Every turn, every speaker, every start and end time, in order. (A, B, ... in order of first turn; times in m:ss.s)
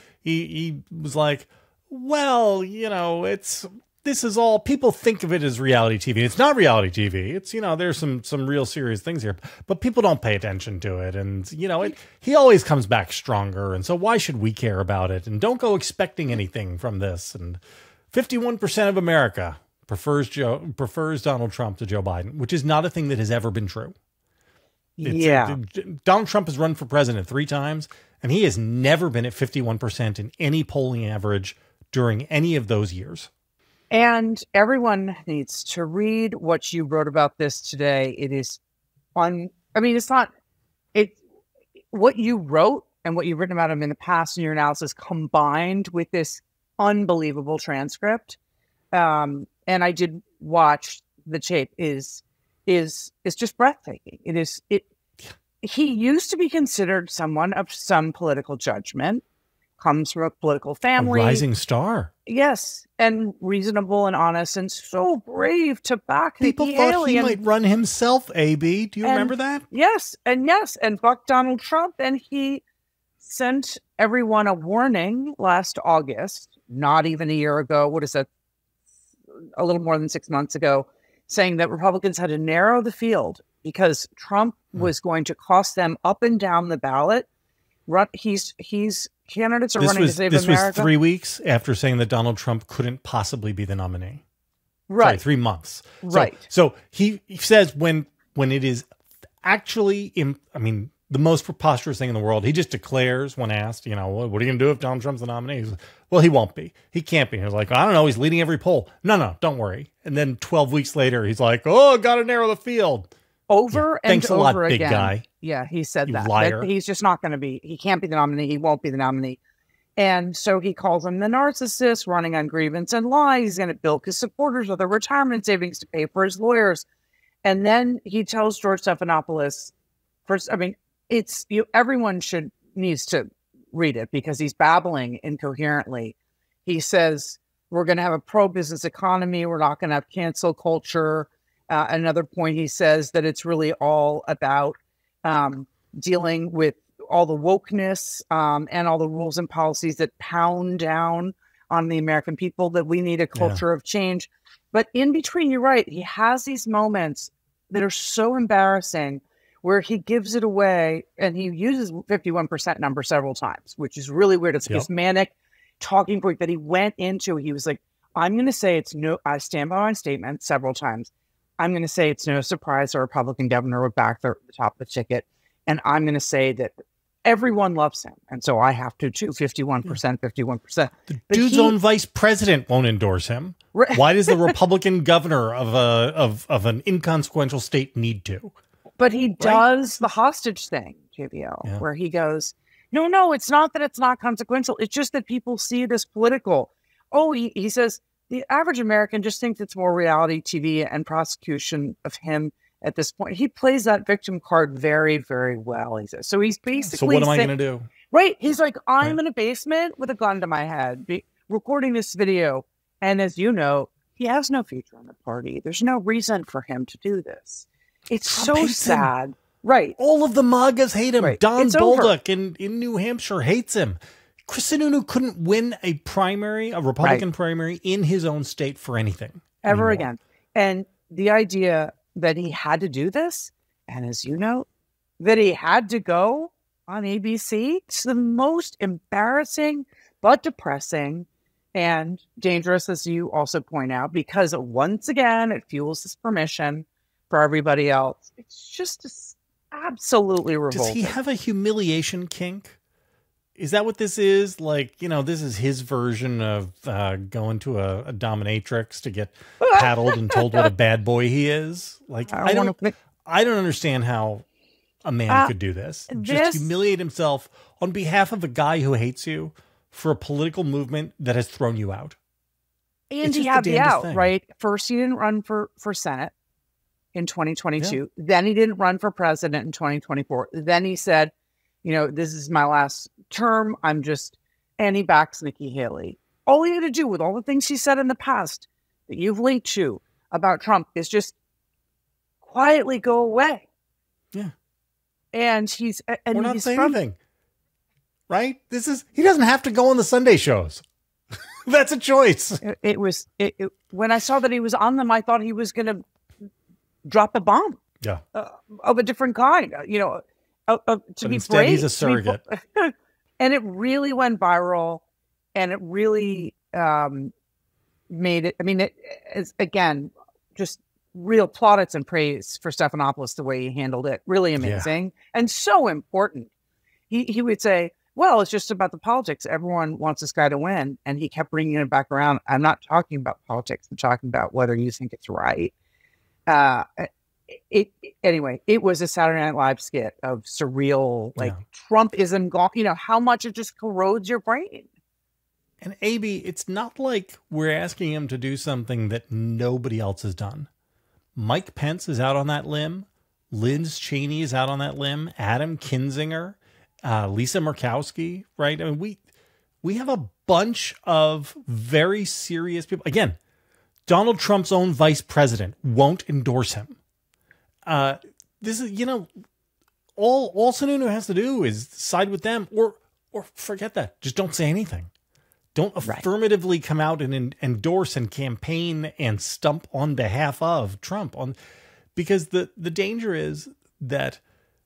0:00.2-0:17.6 A
0:18.1-0:24.0 A
0:25.0-0:25.6 B
0:25.0-0:33.3 A
0:33.9-0:38.6 B
0:39.2-0:40.3 B
0:40.9-0:41.2 B
0:41.9-0:48.4 B
0:48.9-0:54.9 B
0:55.6-0:59.2 B
0:59.8-1:01.4 B
1:01.0-1:02.1 A
1:02.3-1:07.4 B
1:06.4-1:09.7 A
1:09.0-1:12.6 B
1:13.2-1:18.3 B
1:19.4-1:27.3 B
1:27.9-1:30.9 B
1:29.8-1:34.2 A
1:34.9-1:35.2 B
1:35.0-1:38.9 A
1:36.0-1:36.4 B
1:39.4-1:53.1 A
1:53.5-1:59.4 B
1:53.7-1:55.2 A
1:56.1-1:56.7 A
2:00.0-2:06.9 B
2:07.4-2:09.7 B
2:10.3-2:56.7 B
2:33.4-2:33.6 A
2:57.2-3:01.8 B
3:01.1-3:08.6 A
3:03.7-3:04.6 B
3:09.0-3:27.5 B
3:09.4-3:09.6 A
3:26.9-3:27.9 A
3:28.1-3:40.0 B
3:38.3-3:39.1 A
3:40.0-3:50.1 A
3:41.2-3:42.1 B
3:49.6-3:54.7 B
3:55.2-4:11.1 B
4:10.7-4:12.8 A
4:13.6-4:24.4 A
4:19.6-4:20.7 B
4:22.3-4:22.9 B
4:25.0-4:32.2 A
4:26.1-4:26.7 B
4:33.1-4:36.3 B
4:33.2-4:34.3 A
4:37.1-4:41.3 B
4:41.8-4:51.4 B
4:52.4-4:53.6 B
4:55.3-4:57.0 B
4:56.3-4:57.2 A
4:58.3-5:00.8 A
5:01.7-5:02.6 A
5:02.6-5:06.0 B
5:07.0-5:07.8 B
5:08.3-5:15.0 B
5:11.2-5:12.4 A
5:15.6-5:17.3 B
5:18.1-5:26.5 B
5:24.6-5:24.9 A
5:27.1-5:35.7 B
5:36.5-5:44.9 B
5:41.4-5:41.6 A
5:45.8-5:50.7 A
5:51.4-5:59.2 A
5:59.8-6:03.4 A
6:04.1-6:07.0 A
6:07.9-6:09.3 A
6:10.2-6:15.1 A
6:15.8-6:21.6 A
6:22.2-6:24.4 A